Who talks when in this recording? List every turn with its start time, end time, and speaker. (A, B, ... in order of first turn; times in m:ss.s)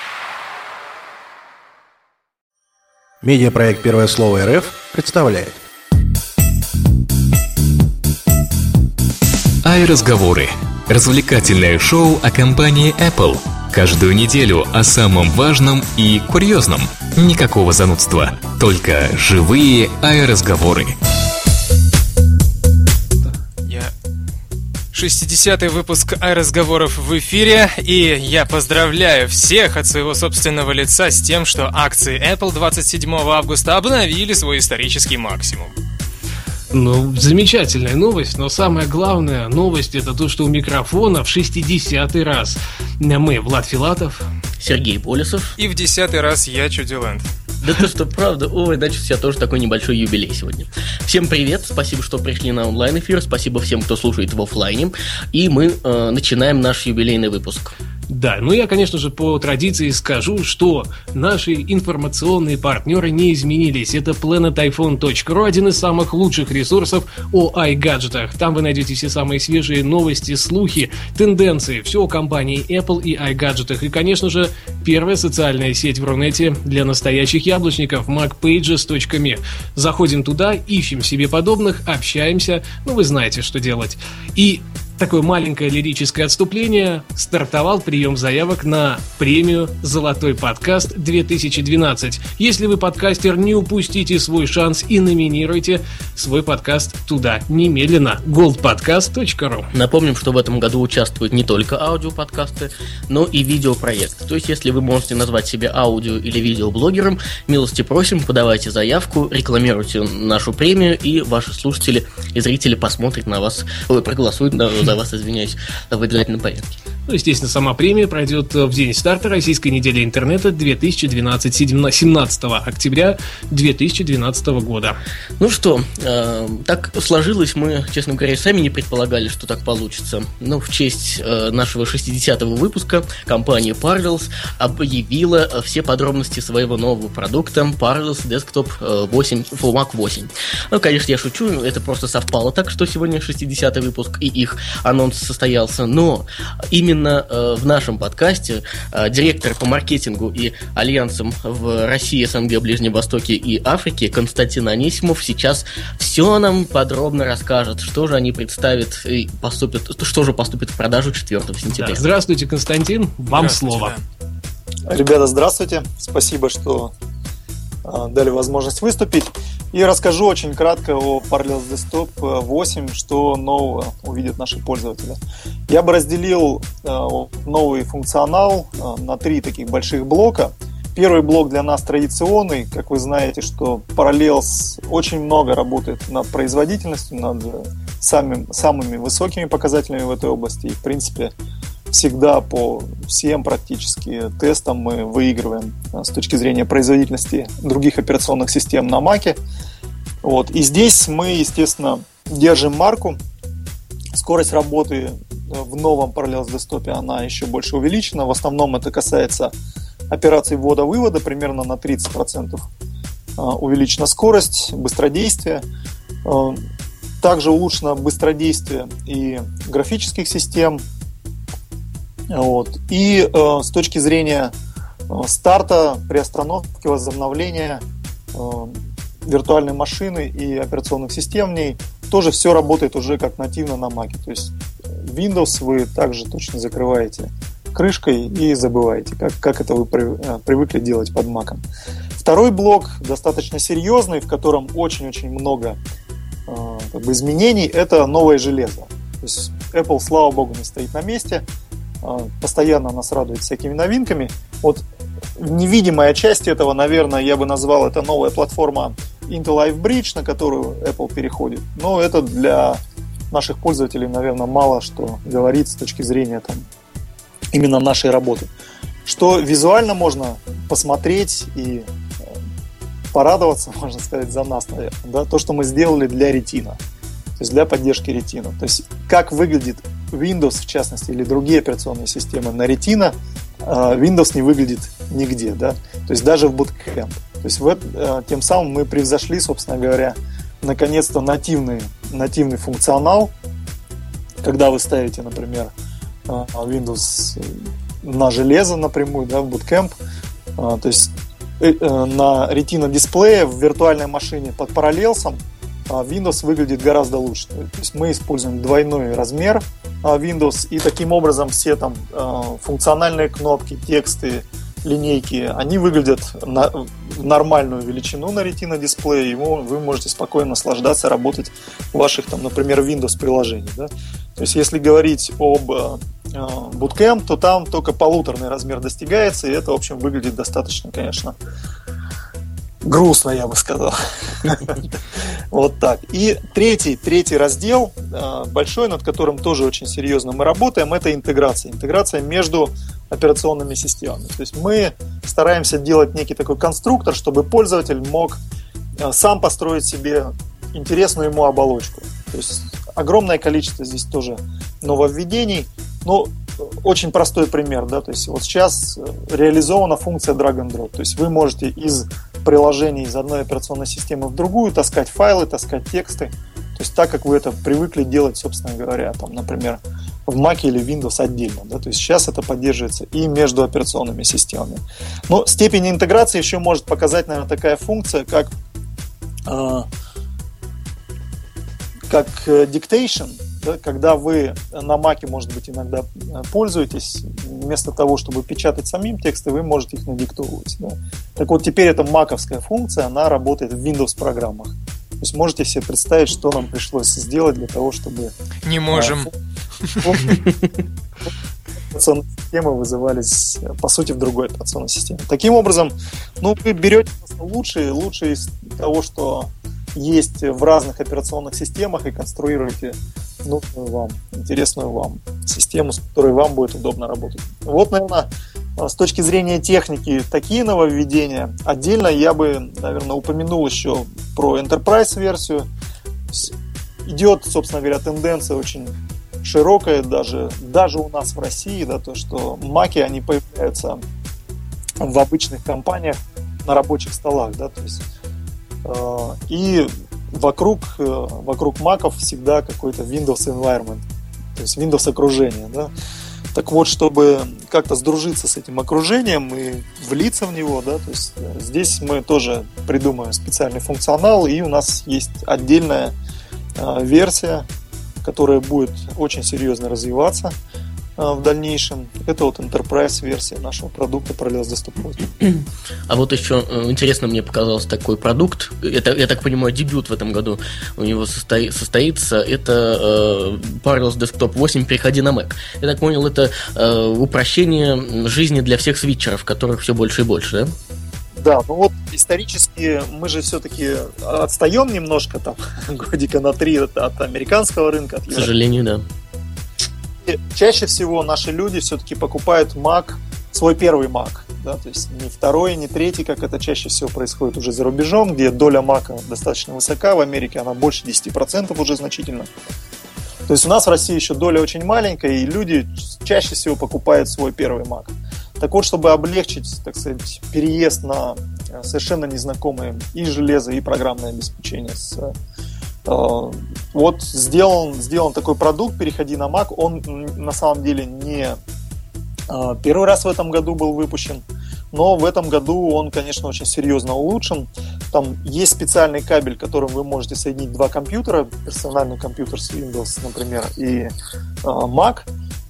0:03.2-0:05.6 A
0:09.6-0:20.9 B
0:23.6-0:23.9 C
0:24.9-0:35.7 C
0:36.7-0:44.2 D
0:44.6-0:45.5 E
0:45.6-0:47.3 C
0:47.6-0:57.7 E
0:58.1-1:39.7 D
1:39.7-1:56.7 E
1:57.1-2:05.0 D
2:05.4-2:42.0 E
2:41.6-2:43.9 D
2:43.3-2:44.0 C
2:44.9-2:46.9 F
2:47.8-2:55.2 F
2:55.7-3:11.3 F
3:11.9-3:19.4 F
3:20.2-3:23.2 F
3:24.1-3:29.5 F
3:30.1-3:32.7 F
3:33.4-3:35.6 F
3:36.2-3:36.6 F
3:37.2-3:40.8 F
3:42.3-3:44.5 F
3:45.1-3:47.8 F
3:48.3-3:48.8 F
3:49.3-3:54.5 F
3:55.0-4:01.6 F
4:02.2-4:05.8 F
4:06.5-4:11.4 F
4:12.0-4:14.8 F
4:15.4-4:22.8 F
4:23.3-4:26.7 F
4:27.5-4:28.5 F
4:29.0-4:31.8 F
4:33.1-4:36.8 F
4:37.4-4:43.1 F
4:43.6-4:53.3 F
4:54.4-4:55.7 F
4:56.3-4:57.5 F
4:58.0-4:59.9 F
5:00.6-5:31.3 F
5:32.8-5:35.0 F
5:35.5-5:48.4 F
5:49.0-6:18.5 F
6:19.5-6:19.8 F
6:22.1-6:38.3 F
6:38.6-6:39.3 C
6:38.9-6:39.3 F
6:39.9-6:40.2 C
6:40.0-6:40.4 F
6:41.9-7:05.7 F
7:07.0-7:14.0 F
7:15.0-7:18.0 F
7:18.8-7:24.0 F
7:24.6-7:25.9 F
7:26.5-7:36.1 F
7:36.8-7:37.6 F
7:38.2-7:40.5 F
7:41.2-7:45.3 F
7:46.1-8:00.7 E
8:01.4-8:08.5 F
8:08.3-8:09.0 E
8:10.2-8:22.5 F
8:23.5-8:35.3 F
8:36.1-8:41.6 F
8:42.5-8:54.1 F
8:54.6-8:55.3 F